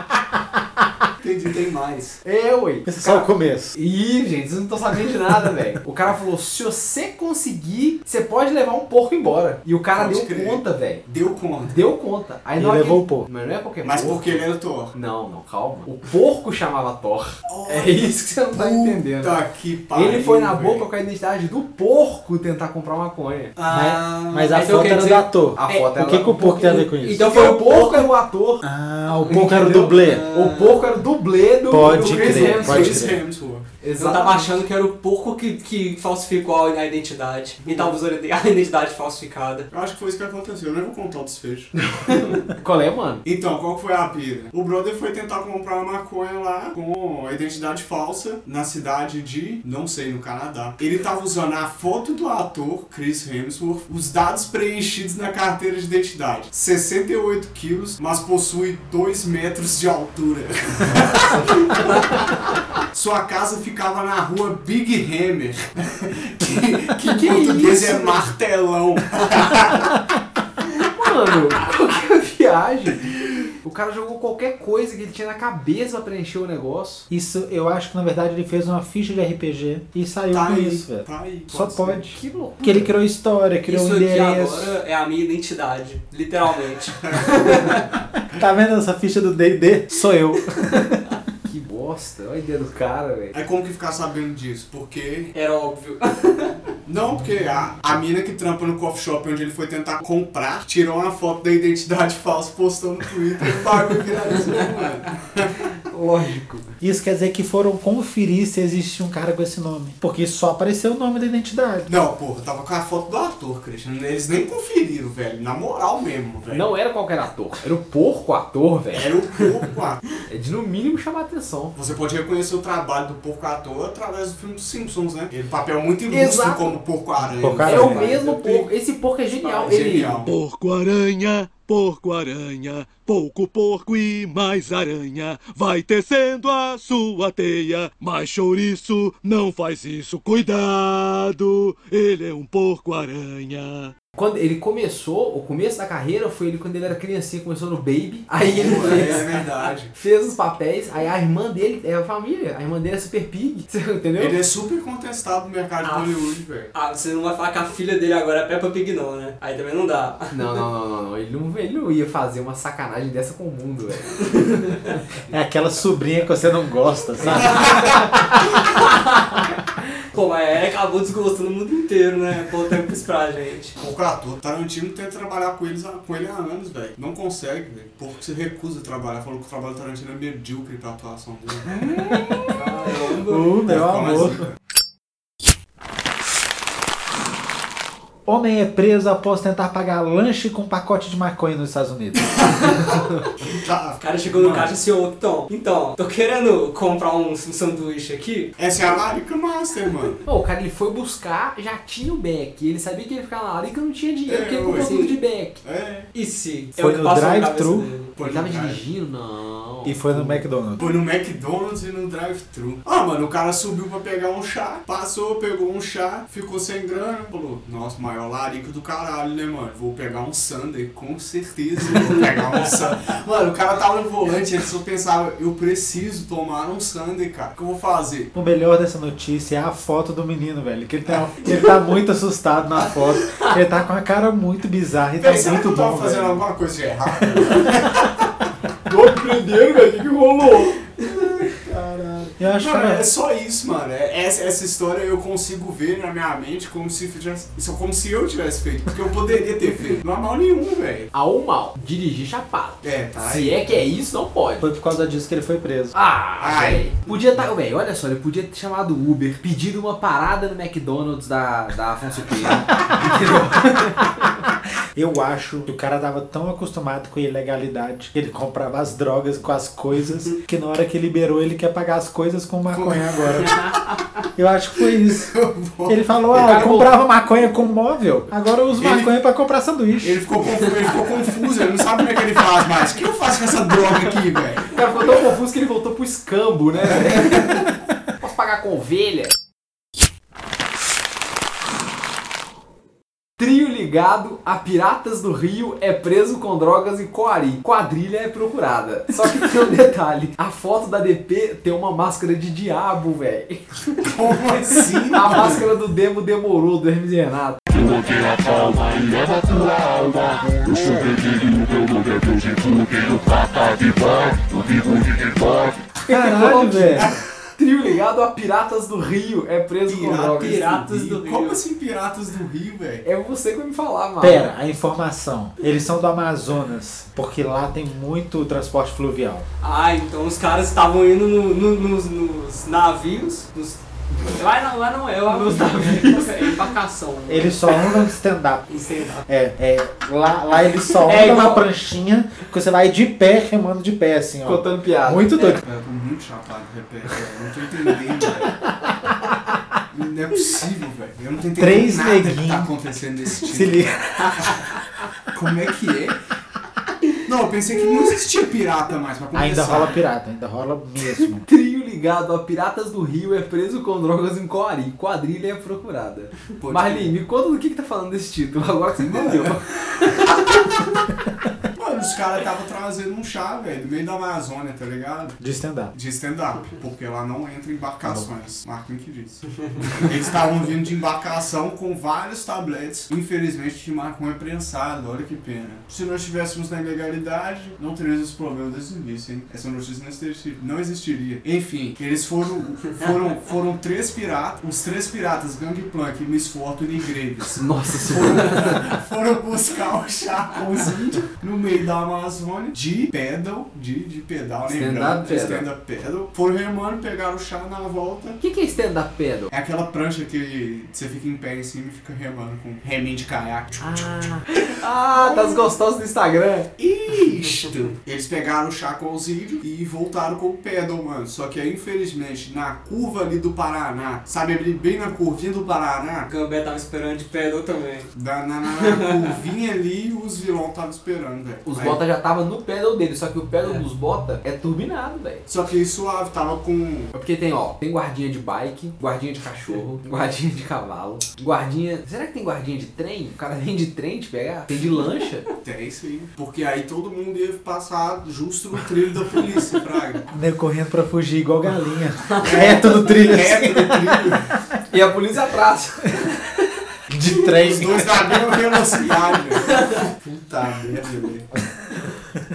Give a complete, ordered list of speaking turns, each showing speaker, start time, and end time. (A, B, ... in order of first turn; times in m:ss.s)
0:01.2-0:02.2 A
0:02.2-0:11.0 B
0:02.8-0:03.8 C
0:09.9-0:11.8 A
0:11.6-0:23.5 B
0:12.6-0:13.3 C
0:13.8-0:15.0 A
0:17.4-0:20.8 A
0:23.6-0:28.1 D
0:23.7-0:27.4 C
0:25.6-0:26.5 B
0:27.2-0:28.6 B
0:28.6-0:30.4 C
0:29.2-0:30.6 D
0:29.3-0:33.1 B
0:30.3-0:30.8 A
0:31.7-0:33.2 C
0:31.9-0:33.7 A
0:33.8-0:34.5 B
0:34.0-0:39.7 D
0:37.6-0:38.0 A
0:39.7-0:41.7 A
0:41.9-0:43.2 B
0:43.2-1:09.9 A
1:07.0-1:08.2 B
1:10.8-1:17.0 B
1:17.1-1:24.8 C
1:20.3-1:22.0 A
1:22.1-1:22.9 B
1:23.7-1:27.8 D
1:27.1-1:27.4 A
1:28.3-1:31.0 C
1:31.4-1:33.4 B
1:33.3-1:35.4 A
1:35.3-1:36.5 D
1:36.8-1:45.7 A
1:45.9-1:46.7 B
1:46.8-1:51.9 C
1:51.8-1:56.7 A
1:56.5-1:59.1 B
1:58.9-2:00.0 A
2:00.3-2:01.7 B
2:01.7-2:08.7 A
2:06.1-2:06.8 B
2:07.2-2:08.1 C
2:07.6-2:10.2 B
2:09.4-2:10.0 D
2:09.7-2:10.3 A
2:10.2-2:23.9 E
2:24.1-2:29.4 B
2:28.4-2:29.9 A
2:28.9-2:29.2 D
2:29.9-2:34.4 B
2:34.2-2:36.7 A
2:35.8-2:40.3 D
2:40.3-2:44.3 B
2:44.4-2:44.7 D
2:45.3-2:48.3 C
2:47.2-2:48.0 B
2:48.7-2:49.4 D
2:50.1-2:53.8 D
2:53.8-3:02.2 A
3:02.1-3:02.5 C
3:02.5-3:03.5 D
3:03.2-3:04.4 C
3:03.6-3:04.5 A
3:08.2-3:12.7 C
3:12.3-3:12.9 A
3:13.4-3:14.7 A
3:13.9-3:18.5 D
3:18.6-3:20.2 A
3:20.2-3:25.6 B
3:24.3-3:25.0 A
3:24.8-3:25.2 D
3:25.6-3:26.1 A
3:26.1-3:28.1 D
3:26.8-3:27.9 C
3:28.2-3:28.8 A
3:28.2-3:30.5 B
3:29.8-3:30.9 C
3:30.8-3:48.3 A
3:48.3-3:56.4 C
3:55.2-3:58.2 A
3:57.3-3:57.6 C
3:58.8-4:00.8 B
4:01.0-4:11.1 A
4:02.3-4:03.1 C
4:11.1-4:14.7 B
4:12.8-4:13.6 A
4:14.6-4:16.0 C
4:15.9-4:24.1 B
4:16.4-4:17.2 A
4:24.9-4:33.6 C
4:32.7-4:33.5 A
4:34.4-4:35.3 C
4:35.1-4:36.6 A
4:35.8-4:40.2 C
4:36.3-4:36.9 B
4:38.8-4:39.2 A
4:40.0-4:45.1 A
4:44.7-4:49.3 B
4:53.4-5:03.6 B
5:04.0-5:05.7 A
5:05.1-5:07.6 B
5:07.8-5:15.7 E
5:12.6-5:15.9 A
5:16.1-5:17.1 C
5:16.1-5:20.6 B
5:19.8-5:23.0 A
5:20.3-5:21.6 D
5:23.0-5:24.5 B
5:24.2-5:29.4 C
5:29.6-5:37.9 D
5:35.3-5:36.5 B
5:37.3-5:38.7 C
5:38.7-5:39.2 D
5:39.3-5:45.6 C
5:41.0-5:41.6 D
5:44.4-5:45.6 B
5:45.6-5:48.6 A
5:49.9-5:53.9 A
5:51.6-5:52.7 C
5:53.2-5:54.7 C
5:55.3-5:56.2 A
5:57.2-6:00.0 A
5:59.3-6:01.4 C
6:01.0-6:10.4 B
6:06.6-6:07.1 A
6:09.0-6:09.6 A
6:11.7-6:15.4 A
6:15.4-6:15.9 C
6:15.9-6:48.4 A
6:37.6-6:38.7 B
6:44.6-6:45.7 B
6:48.4-6:49.5 B
6:49.5-6:54.4 A
6:53.8-6:56.7 B
6:55.1-6:55.7 A
6:56.8-7:06.3 A
7:06.3-7:08.1 D
7:08.1-7:12.0 A
7:11.6-7:15.4 B
7:15.5-7:17.1 A
7:17.1-7:25.5 B
7:25.6-7:30.3 A
7:30.3-7:34.4 C
7:32.3-7:32.8 D
7:32.4-7:34.5 A
7:34.9-7:36.2 B
7:37.1-7:38.2 C
7:37.6-7:41.4 A
7:41.5-7:42.2 C